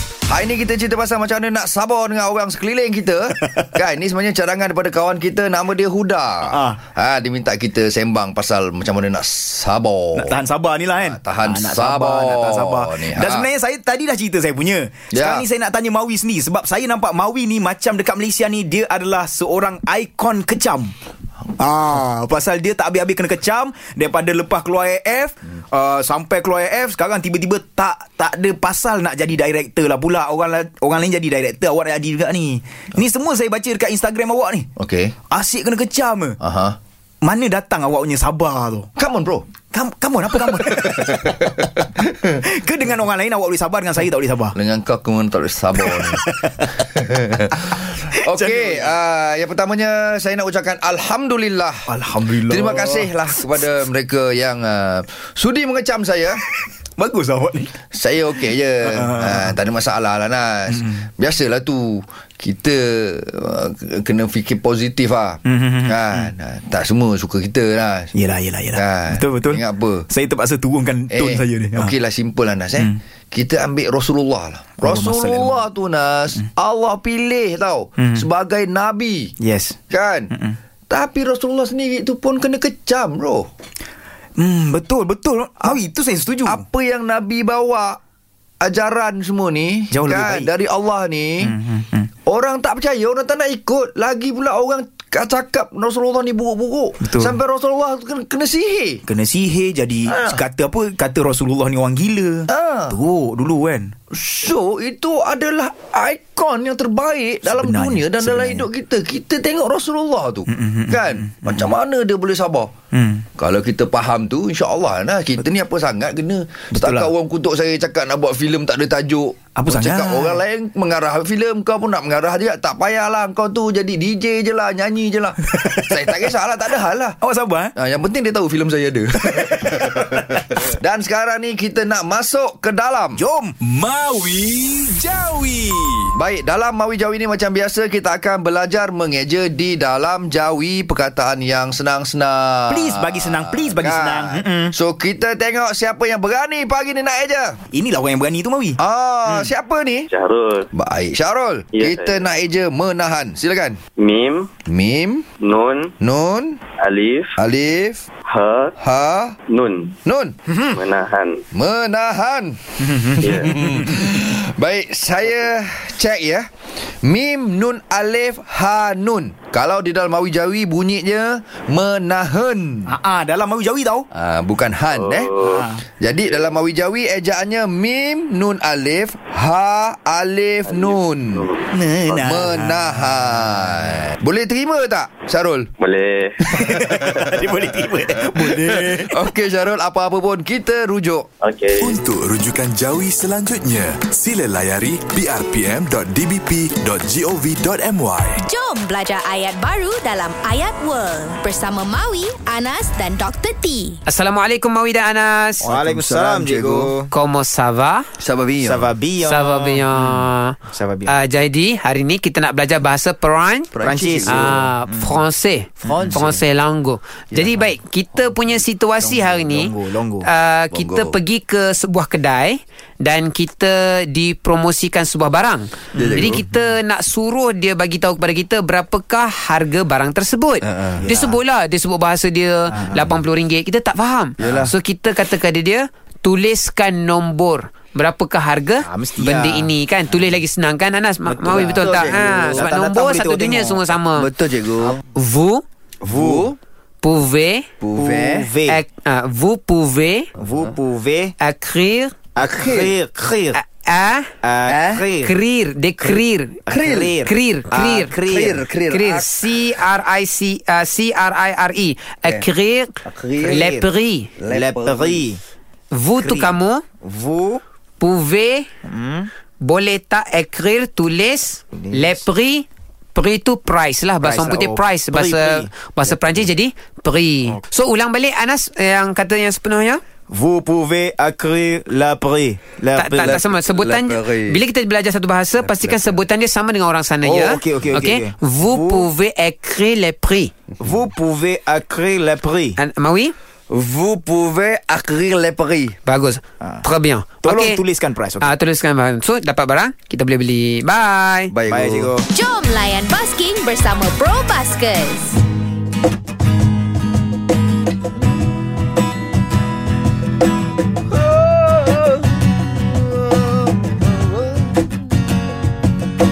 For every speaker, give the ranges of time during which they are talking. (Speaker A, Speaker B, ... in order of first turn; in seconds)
Speaker A: 0.3-10.4, 11.0-13.5, 15.1-15.5, 34.8-35.1, 36.4-36.8, 39.0-39.5, 40.5-42.3, 44.5-51.9, 52.5-56.4, 57.9-68.1, 68.7-70.1, 71.1-79.3, 79.9-80.3, 80.9-83.5, 86.5-88.0, 88.6-91.6, 92.3-99.0, 100.1-100.4, 102.5-103.0, 104.1-112.7, 113.4-127.2, 127.8-133.2, 136.1-147.6, 148.8-150.1, 150.7-153.8, 154.7-155.3, 156.0-156.6, 157.4-158.0, 158.8-159.4, 160.1-160.3, 161.5-162.6, 163.2-166.5, 167.0-172.9, 174.1-175.4, 176.0-181.5, 182.1-185.7, 186.5-187.5, 188.3-191.3, 205.6-206.9, 208.2-208.9, 213.7-214.7, 215.9-216.3, 217.3-217.7, 220.7-221.2, 225.9-226.5, 230.6-231.1, 234.4-234.7, 241.7-242.7, 244.2-245.0, 246.1-246.6, 247.8-248.5, 252.4-252.9, 254.7-255.1, 256.7-257.1, 258.2-259.3, 263.0-263.7, 264.4-265.2, 283.2-284.6, 285.6-286.2, 290.8-291.1, 293.7-296.0, 301.5-302.1, 311.1-314.9
Speaker B: 6.5-6.8, 10.2-20.9, 21.6-34.7, 35.3-36.4, 37.2-38.9, 39.7-41.6, 42.4-44.6, 45.9-46.7, 47.9-48.9, 51.9-53.1, 57.0-57.8, 58.8-59.5, 65.5-66.3, 68.2-71.9, 74.8-75.6, 78.0-78.2, 79.4-79.8, 84.4-86.6, 89.9-90.5, 91.4-92.1, 97.0-97.3, 99.1-103.9, 107.5-108.7, 110.5-111.7, 112.9-113.3, 116.7-117.1, 119.6-120.4, 125.5-126.1, 127.2-127.7, 129.3-130.2, 133.2-136.1, 142.7-144.7, 147.7-148.8, 160.5-160.8, 162.8-163.9, 172.9-174.1, 175.4-175.8, 181.7-182.8, 186.5-189.2, 205.6-207.1, 208.6-211.2, 213.8-215.2, 215.8-216.4, 219.0-220.3, 225.9-226.4, 231.0-231.4, 232.7-233.1, 238.8-240.2, 241.3-243.8, 246.0-246.5, 248.0-248.8, 250.4-251.3, 252.4-253.6, 254.4-255.4, 256.0-258.7, 263.4-263.9, 264.5-265.4, 266.2-267.6, 268.9-269.3, 271.7-272.2, 274.2-275.7, 280.3-283.4, 287.2-289.1, 290.8-292.8, 296.6-296.9, 297.4-298.5, 301.7-302.3
Speaker C: 150.1-150.7, 151.7-152.2, 154.0-154.5, 155.4-155.9, 156.8-157.4, 158.3-158.7, 159.5-159.9, 160.7-161.4, 174.9-175.6, 180.7-181.6, 185.8-186.4, 191.4-191.9
Speaker D: 191.8-198.4
Speaker E: 198.4-204.0, 302.3-305.4
Speaker F: 204.1-205.7, 207.1-208.1, 209.2-210.6, 211.1-213.7, 214.2-244.3, 245.1-245.6, 247.0-247.7, 248.7-250.3, 251.4-252.2, 253.5-254.3, 255.2-256.6, 257.2-258.2, 258.9-264.3, 265.9-266.8, 268.0-268.7, 269.6-280.0, 282.9-290.5, 292.8-293.3, 296.1-297.8, 298.4-301.5